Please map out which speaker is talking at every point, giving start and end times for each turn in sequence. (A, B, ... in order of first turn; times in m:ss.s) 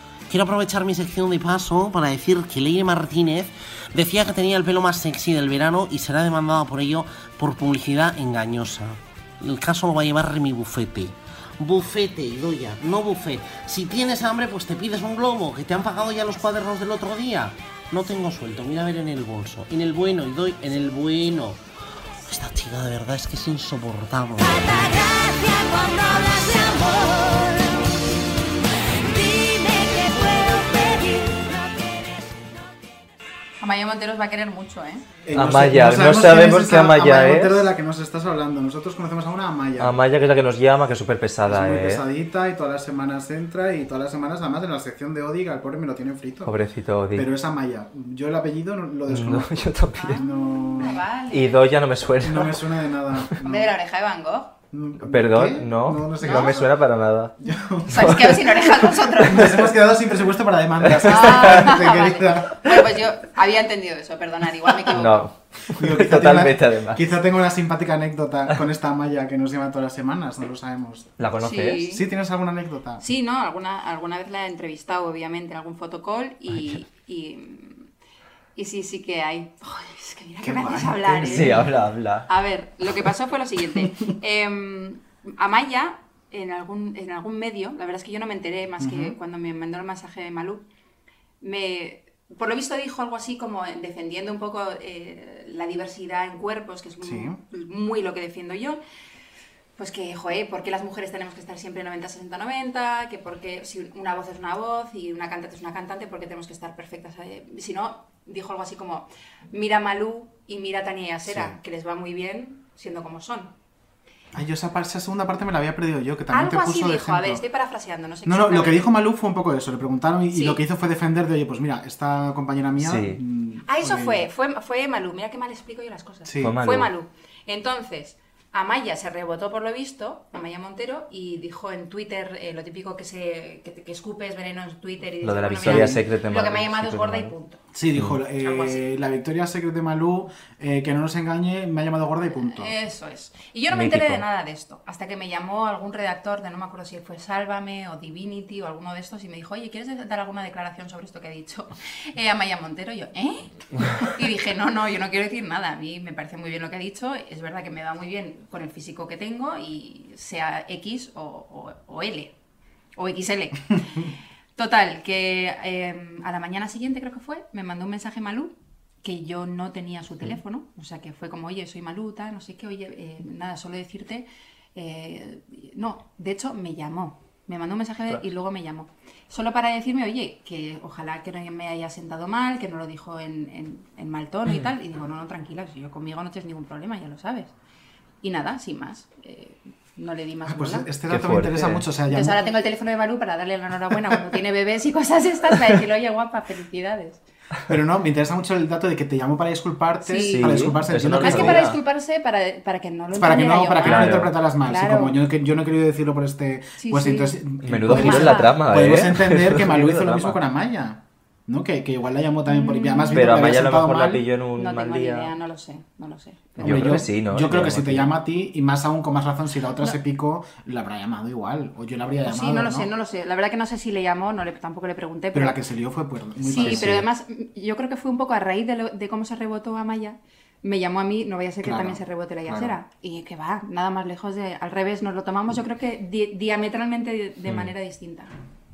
0:00.3-0:21.6 A
0:22.2-0:24.6 A
0:24.4-0:28.0 B
0:29.0-0:32.2 B
0:33.6-0:35.1 C
0:35.3-0:40.0 D
0:35.3-0:37.7 E
0:39.8-0:42.0 E
0:41.4-0:46.6 D
0:46.4-0:47.3 E
0:47.1-0:51.0 D
0:49.1-0:50.2 E
0:50.0-0:51.6 C
0:51.3-0:52.8 E
0:52.2-0:53.7 D
0:53.4-0:54.5 C
0:54.7-0:56.8 D
0:55.0-0:57.3 E
0:56.2-0:56.5 C
0:57.4-1:02.7 D
0:57.9-0:59.8 C
0:58.0-0:58.5 E
1:00.9-1:01.5 E
1:01.0-1:05.3 C
1:04.9-1:07.0 E
1:05.8-1:11.2 D
1:11.2-1:11.8 E
1:11.4-1:12.0 C
1:11.8-1:13.0 D
1:13.0-1:17.9 C
1:18.6-1:21.8 C
1:20.4-1:21.6 D
1:21.2-1:22.3 E
1:22.3-1:30.6 C
1:28.8-1:29.2 D
1:31.4-1:38.8 C
1:37.0-1:37.4 D
1:39.8-1:53.5 C
1:51.3-1:51.6 D
1:54.3-1:57.4 D
1:56.3-1:59.0 C
1:58.3-2:04.3 D
2:00.3-2:00.6 C
2:02.8-2:03.2 E
2:03.7-2:17.6 C
2:06.2-2:06.6 D
2:06.4-2:06.9 E
2:15.2-2:17.3 E
2:15.6-2:16.0 D
2:17.7-2:22.7 D
2:18.4-2:18.9 C
2:22.3-2:42.3 C
2:23.7-2:24.2 E
2:43.0-3:07.5 C
3:08.2-3:10.9 C
3:10.5-3:12.5 D
3:11.1-3:11.9 E
3:12.1-3:17.2 C
3:17.7-3:21.7 D
3:20.0-3:25.2 C
3:20.2-3:21.8 E
3:23.1-3:34.3 D
3:23.8-3:24.3 E
3:26.8-3:28.6 C
3:27.6-3:30.4 E
3:32.5-3:33.4 C
3:33.1-3:35.3 E
3:34.6-3:37.0 C
3:36.6-3:38.1 E
3:36.6-3:42.9 D
3:42.3-3:45.6 C
3:45.3-3:47.0 D
3:46.4-3:58.3 C
3:46.6-3:47.1 E
3:51.6-3:52.8 D
3:57.5-3:57.7 E